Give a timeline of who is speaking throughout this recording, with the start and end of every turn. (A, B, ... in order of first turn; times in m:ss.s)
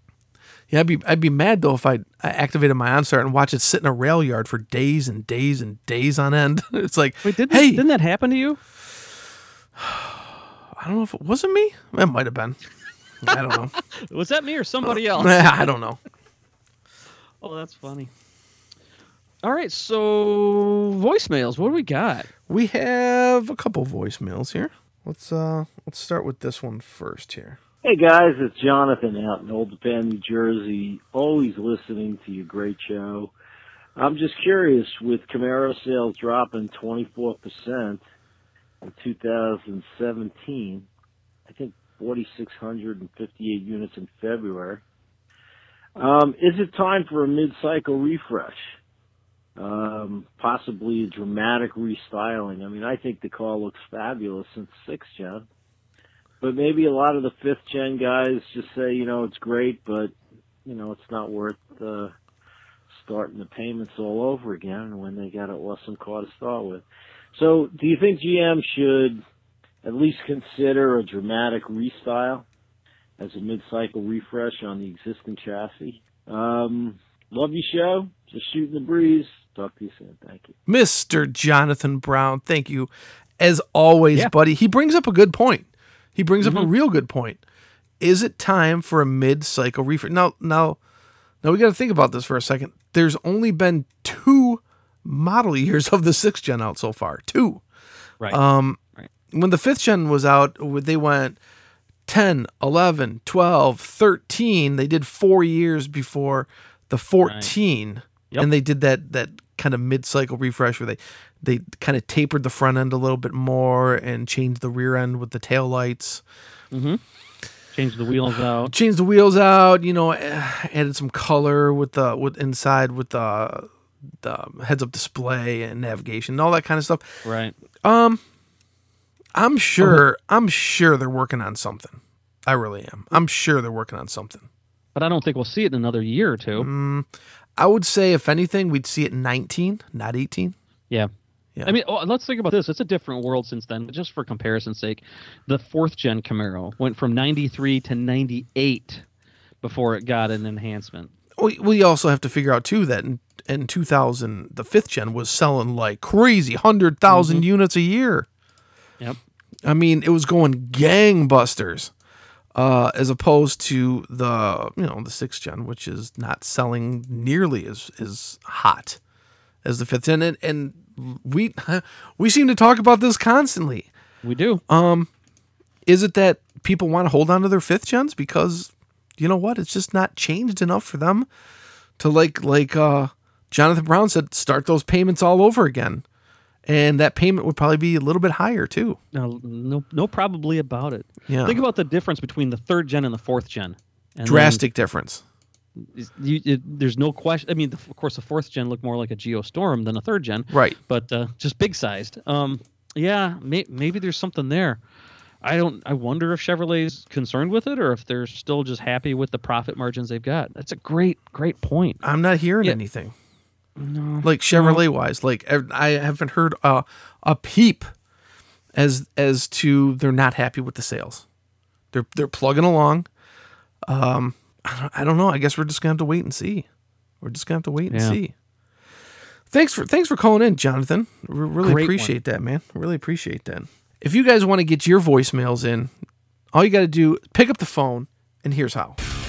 0:00.7-0:07.8 A
0:07.2-0:08.6 B
0:09.8-0:12.6 A
0:13.2-0:13.7 A
0:13.3-0:15.7 B
0:14.8-0:16.0 A
0:17.4-0:18.1 B
0:19.4-0:22.3 B
0:22.5-0:27.6 A
0:27.8-0:33.3 C
0:34.0-0:38.0 C
0:38.8-0:40.9 C
0:41.5-0:44.8 C
0:46.0-0:48.6 C
0:49.6-0:55.4 C
0:56.4-1:00.1 C
1:00.6-1:02.1 C
1:02.9-1:09.2 C
1:09.8-1:12.5 C
1:13.2-1:20.5 C
1:20.7-1:27.4 A
1:26.4-1:26.7 B
1:28.0-1:30.8 A
1:31.4-1:37.6 A
1:38.3-1:38.8 A
1:39.3-1:41.4 A
1:42.1-1:56.2 A
1:47.2-1:47.5 B
1:56.7-1:57.0 B
1:57.7-1:58.7 B
1:58.7-2:03.7 A
2:04.2-2:07.2 A
2:07.2-2:07.5 B
2:07.8-2:08.2 A
2:09.3-2:14.5 A
2:14.9-2:16.7 B
2:16.6-2:20.6 A
2:21.6-2:29.0 B
2:29.6-2:31.1 B
2:31.4-2:38.3 A
2:37.1-2:37.4 B
2:39.6-2:41.9 A
2:42.5-2:49.0 A
2:49.6-2:53.9 A
2:54.2-2:54.6 B
2:54.7-2:55.1 A
2:55.9-3:01.3 A
3:02.0-3:06.0 A
3:06.6-3:09.0 A
3:09.1-3:14.6 B
3:11.3-3:11.6 A
3:14.2-3:15.2 A
3:15.8-3:24.8 B
3:20.5-3:20.8 A
3:25.4-3:32.0 B
3:32.0-3:33.1 A
3:33.8-3:34.8 B
3:34.2-3:37.9 A
3:38.7-3:41.2 A
3:41.9-3:43.1 A
3:43.9-3:46.7 A
3:47.2-3:48.3 A
3:47.9-3:48.2 B
3:49.5-3:55.9 A
3:51.6-3:52.1 B
3:56.5-3:59.0 A